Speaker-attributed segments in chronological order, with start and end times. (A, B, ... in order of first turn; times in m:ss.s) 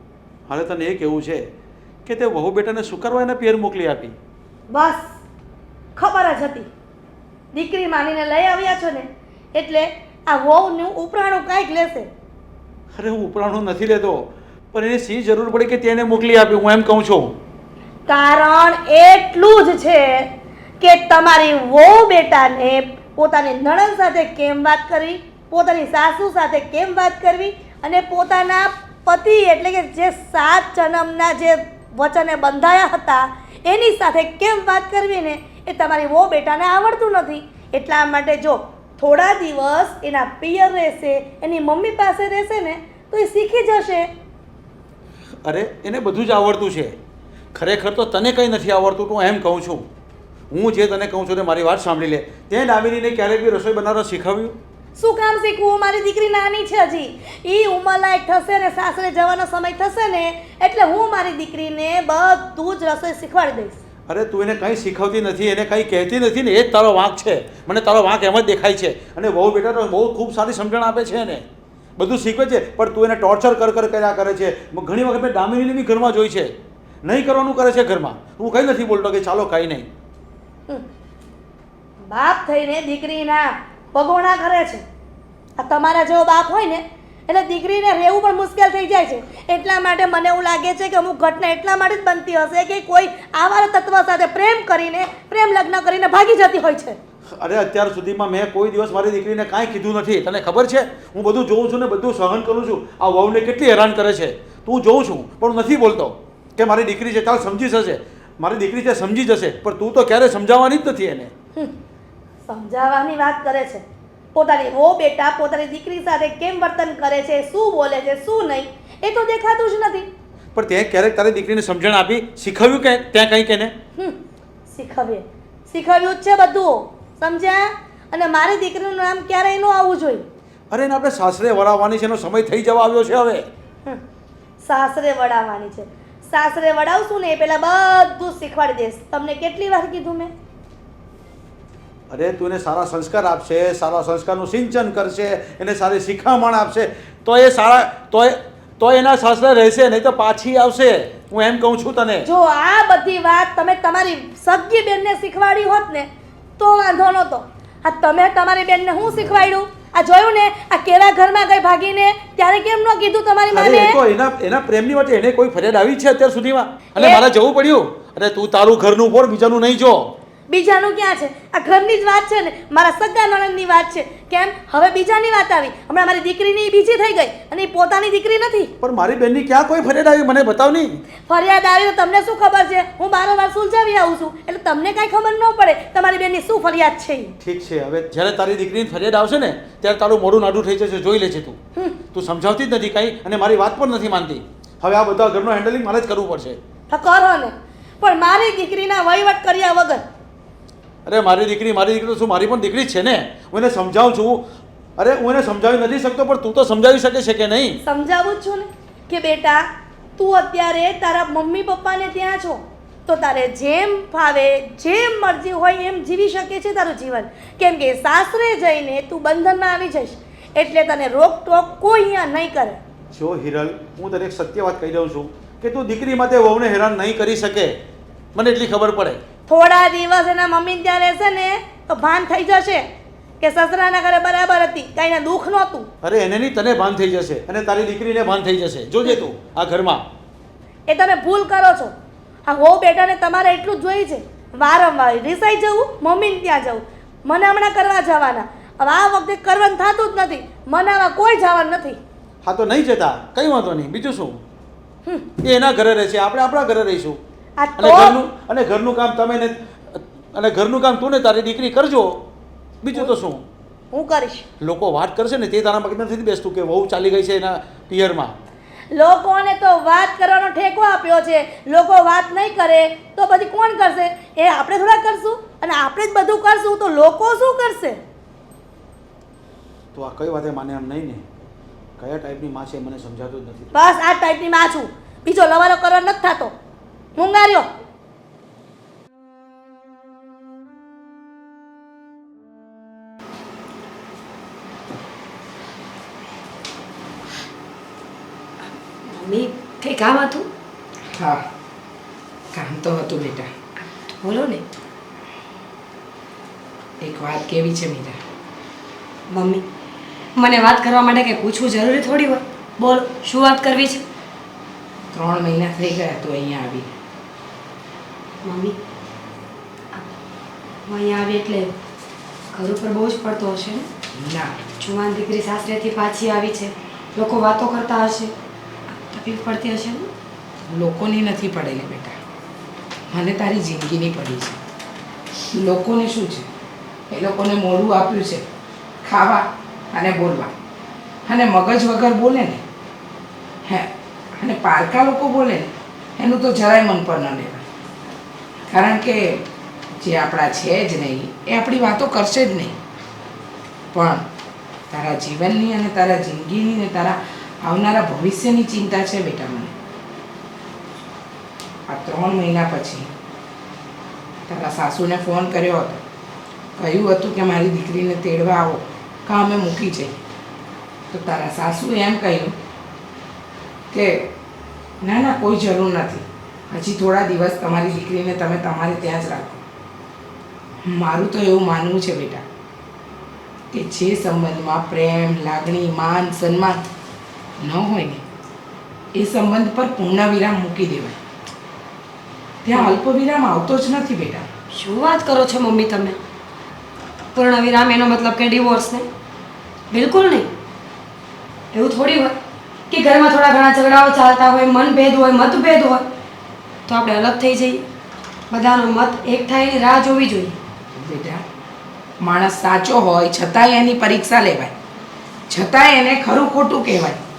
0:00.5-0:01.4 A
0:02.0-0:04.1 A
0:04.7-0:05.2 B
0:06.0-0:06.7 B
0:07.5-0:12.1 B
0:12.9-0:17.3 A
0:18.1-0:20.3 B
0:20.8-0:44.1 B
0:45.4-0:46.9 A
0:47.5-0:49.8 A
0:50.5-0:54.6 A
0:55.0-1:03.8 B
1:04.1-1:11.4 A
1:12.0-1:16.5 A
1:17.0-1:19.9 A
1:22.1-1:24.8 B
1:25.6-1:37.0 B
1:37.4-1:51.3 A
1:52.5-1:53.8 B
1:54.3-2:00.1 B
2:00.5-2:03.7 A
2:04.7-2:10.3 B
2:10.7-2:13.5 A
2:14.6-2:20.3 B
2:22.1-2:32.2 A
2:32.2-2:44.0 B
2:43.5-2:50.1 A
2:46.9-2:47.2 B
2:50.5-2:58.7 B
2:58.8-3:01.0 A
3:01.3-3:07.3 B
3:07.4-3:11.6 A
3:12.1-3:16.6 A
3:16.9-3:20.0 B
3:21.0-3:24.4 A
3:25.0-3:27.8 A
3:27.8-3:29.6 B
3:30.2-3:42.8 B
3:43.1-3:47.7 A
3:48.3-3:49.2 A
3:49.5-3:52.8 B
3:53.4-3:55.9 B
3:56.0-4:00.0 A
4:00.9-4:01.9 B
4:02.5-4:12.0 B
4:12.4-4:14.4 A
4:15.4-4:17.2 A
4:17.6-4:18.2 B
4:17.8-4:22.2 A
4:22.8-4:23.4 A
4:23.9-4:24.4 B
4:24.6-4:28.3 A
4:28.9-4:38.0 B
4:39.9-4:41.2 A
4:42.0-4:43.8 A
4:43.7-4:46.5 B
4:47.2-4:47.7 B
4:59.1-5:00.5 C
5:01.1-5:01.4 D
5:02.5-5:03.5 D
5:04.1-5:04.6 C
5:07.0-5:08.2 D
5:09.3-5:09.6 C
5:10.4-5:14.0 C
5:15.1-5:16.9 D
5:18.4-5:18.8 C
5:20.9-5:21.7 C
5:22.5-5:23.9 C
5:24.1-5:24.6 D
5:24.8-5:28.3 C
5:28.9-5:30.1 C
5:30.7-5:32.1 D
5:33.1-5:34.6 D
5:35.6-5:36.5 D
5:37.1-5:38.4 D
5:39.0-5:40.5 D
5:41.2-5:42.6 D
5:43.6-5:47.6 D
5:48.7-5:49.4 D
5:50.0-5:52.8 D
5:53.9-5:54.2 D
5:54.9-5:59.7 D
6:01.9-6:03.1 D
6:04.5-6:06.0 D
6:06.8-6:10.2 D
6:11.1-6:12.5 D
6:13.9-6:14.3 D
6:15.0-6:19.6 D
6:20.8-6:22.4 D
6:23.7-6:26.8 D
6:27.6-6:28.2 D
6:29.1-6:31.2 D
6:32.6-6:34.4 D
6:34.7-6:36.2 C
6:37.3-6:39.1 C
6:39.9-6:40.5 C
6:41.7-6:42.4 C
6:42.9-6:46.1 C
6:46.9-6:47.8 C
6:48.5-6:50.6 C
6:51.0-6:51.4 D
6:52.2-6:54.7 D
6:55.5-6:57.2 D